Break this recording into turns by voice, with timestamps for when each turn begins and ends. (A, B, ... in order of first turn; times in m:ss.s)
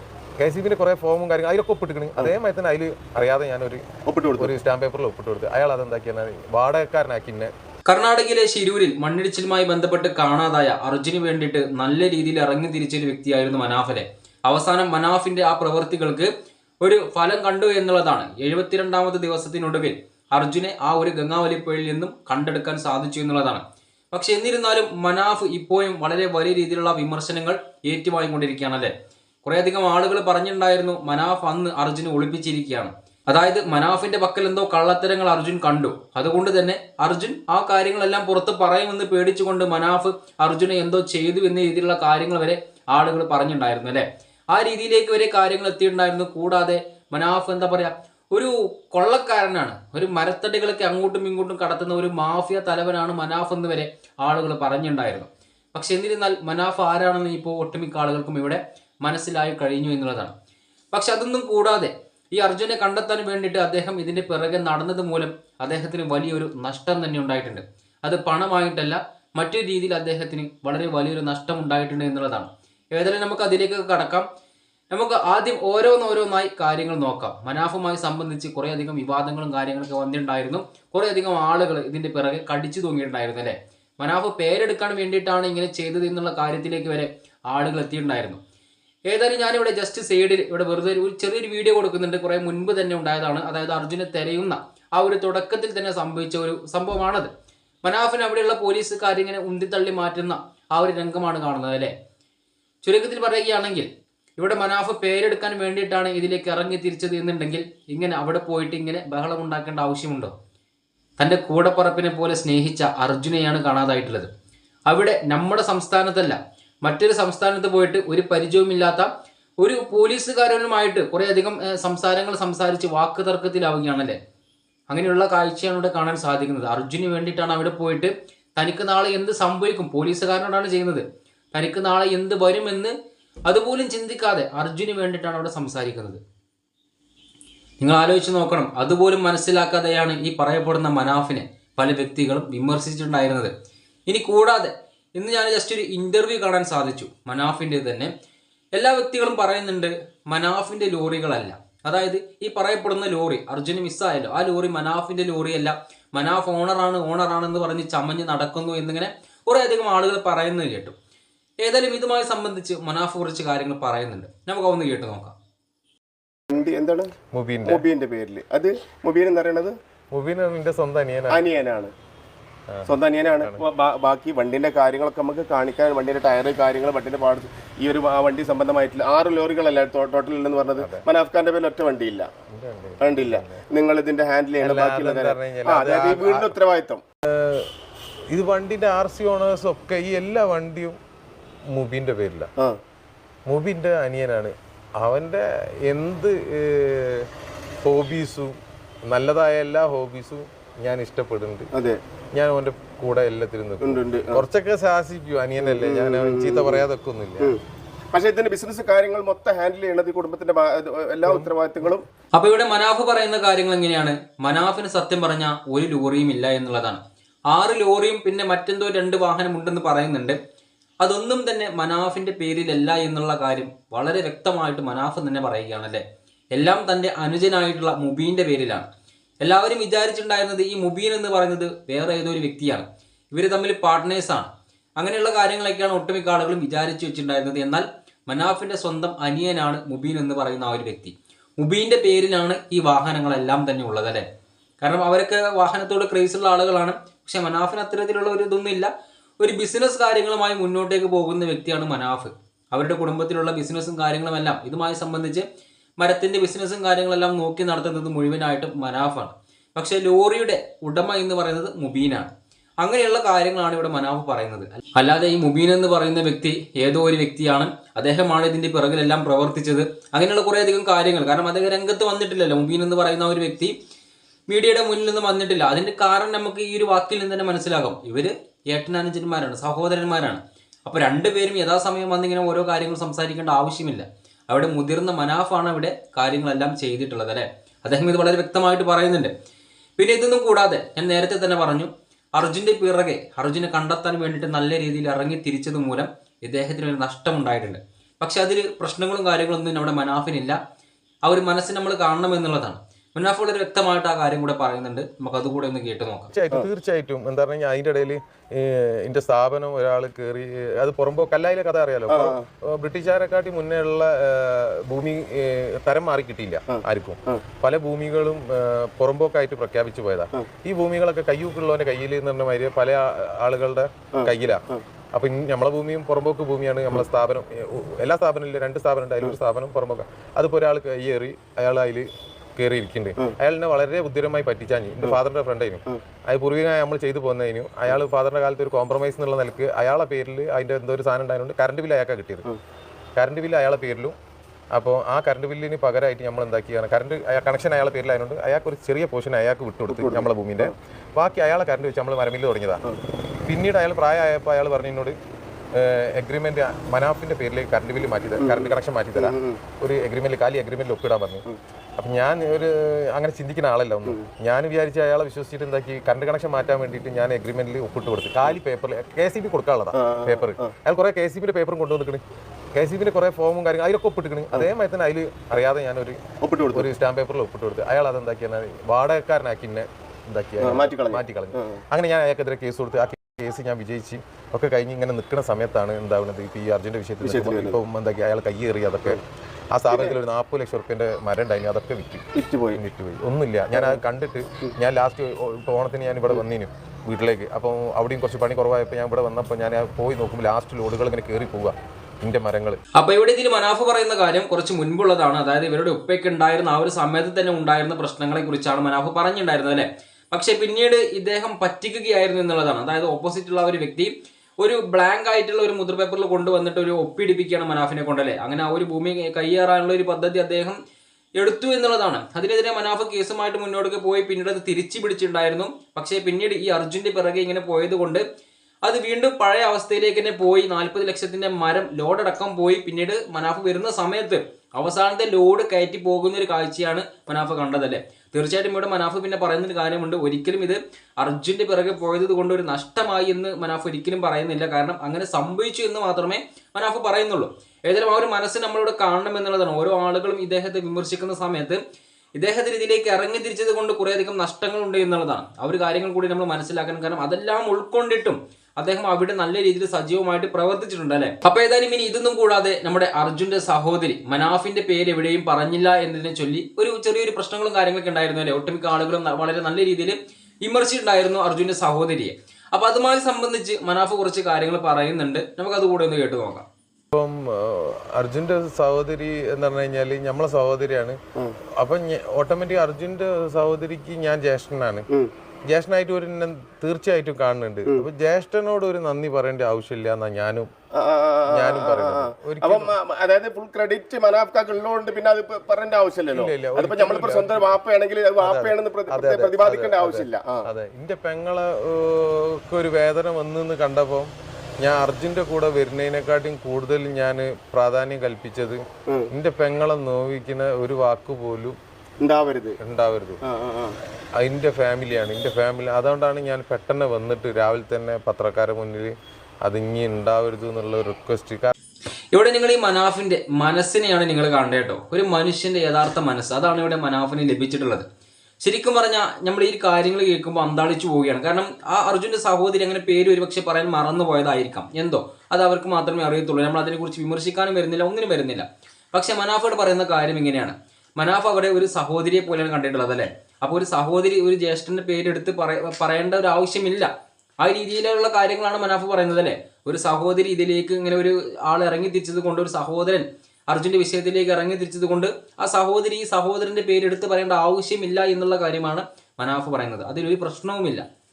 0:00.4-0:03.8 A
0:04.0-0:04.5 B
0:04.4-0:07.5 A
0:07.8-0:16.3 C
0:16.8-0:28.9 C
0:29.4-1:00.3 C
1:00.9-1:14.3 C
1:14.9-1:28.4 C
1:29.1-1:37.3 C
1:37.8-1:41.9 C
1:42.8-1:50.3 C
1:51.2-1:54.3 C
1:54.9-1:59.1 C
1:59.6-2:04.2 C
2:04.9-2:12.9 C
2:13.5-2:16.2 C
2:17.8-2:23.5 C
2:24.1-2:28.1 C
2:28.7-2:40.9 C
2:41.6-2:45.3 C
2:46.5-2:47.1 B
2:47.3-2:47.8 A
2:47.6-2:49.7 B
2:50.1-2:51.4 A
2:51.3-2:51.9 B
2:52.7-2:53.6 A
2:52.8-3:02.3 B
3:00.8-3:01.0 A
3:02.5-3:03.6 A
3:03.0-3:07.0 B
3:04.6-3:06.5 A
3:07.3-3:07.7 A
3:08.3-3:11.0 A
3:11.7-3:12.5 A
3:13.5-3:17.3 A
3:17.8-3:18.6 A
3:19.1-3:21.7 A
3:21.7-3:22.0 B
3:22.3-3:27.5 A
3:23.8-3:24.4 B
3:25.6-3:26.8 B
3:28.1-3:32.0 B
3:31.2-3:31.9 A
3:32.3-3:40.4 C
3:41.0-3:48.9 C
3:49.4-4:04.2 C
4:04.8-4:08.9 C
4:09.4-4:15.4 C
4:16.0-4:33.7 C
4:34.5-4:49.3 C
4:50.0-5:00.6 C
5:01.2-5:06.3 C
5:06.3-5:42.4 A
5:12.1-5:12.4 B
5:16.7-5:17.4 B
5:24.2-5:24.8 B
5:43.2-5:44.1 A
5:44.7-5:52.8 A
5:49.9-5:50.7 B
5:53.4-5:55.2 A
5:55.7-6:01.4 A
5:58.4-5:59.6 B
6:02.0-6:12.2 A
6:09.9-6:10.7 B
6:12.7-6:16.2 A
6:16.4-6:16.8 B
6:16.7-6:29.2 A
6:20.6-6:21.8 B
6:27.2-6:27.8 B
6:29.7-6:42.8 A
6:32.3-6:32.8 B
6:33.7-6:34.0 B
6:42.9-7:00.8 C
7:01.4-7:08.2 C
7:08.8-7:31.8 C
7:32.4-7:56.6 C
7:57.1-8:01.2 A
8:01.8-8:05.1 A
8:05.7-8:10.7 A
8:10.9-8:20.6 B
8:11.5-8:12.9 A
8:16.3-8:17.7 A
8:18.4-8:31.8 A
8:32.2-8:32.8 B
8:32.8-8:33.4 A
8:33.4-8:33.9 B
8:34.4-8:39.1 A
8:39.6-8:41.7 A
8:42.3-8:48.0 C
8:48.6-9:07.1 C
9:07.6-9:21.0 C